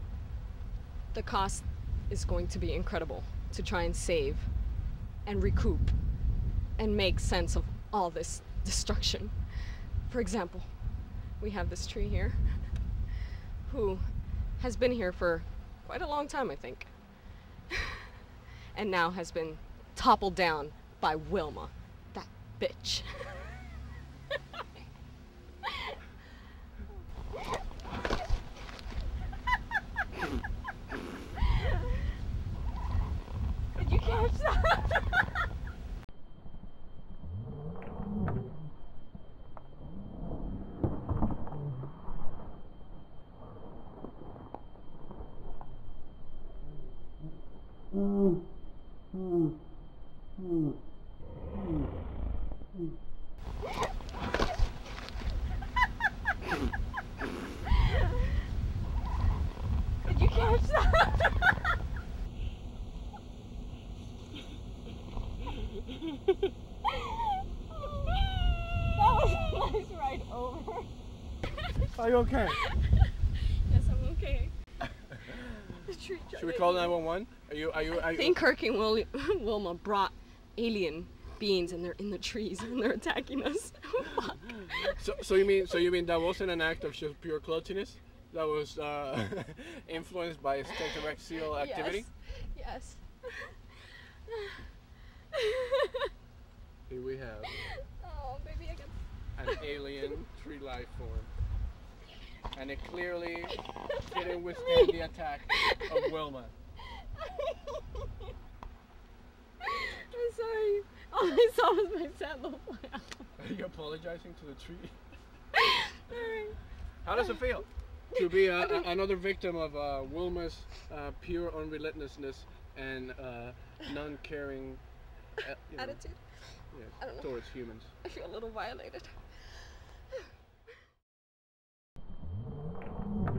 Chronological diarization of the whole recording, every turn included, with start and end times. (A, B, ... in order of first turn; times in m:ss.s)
0:01.1-0:04.6 A
0:05.2-0:06.1 A
0:06.8-0:12.9 A
0:13.6-0:17.2 A
0:18.7-0:23.5 A
0:33.8-0:35.1 A
1:00.0-1:01.5 A
1:07.0-1:10.9 A
1:12.0-1:12.6 B
1:12.5-1:13.1 A
1:13.7-1:14.5 A
1:15.9-1:17.0 A
1:16.3-1:18.4 B
1:17.8-1:25.0 A
1:24.8-1:32.1 B
1:31.5-1:33.6 A
1:34.3-1:34.6 A
1:35.4-1:35.9 A
1:36.9-1:37.5 B
1:38.0-1:39.0 A
1:39.4-1:41.3 B
1:42.5-1:46.5 B
1:44.1-1:45.0 A
1:47.2-1:47.7 A
1:49.7-1:53.3 A
1:53.4-1:55.0 B
1:55.6-1:56.6 A
1:57.0-2:04.8 B
1:57.1-1:57.5 A
1:58.2-1:58.9 A
2:05.4-2:06.0 B
2:05.8-2:07.4 A
2:06.7-2:07.9 B
2:08.0-2:09.8 A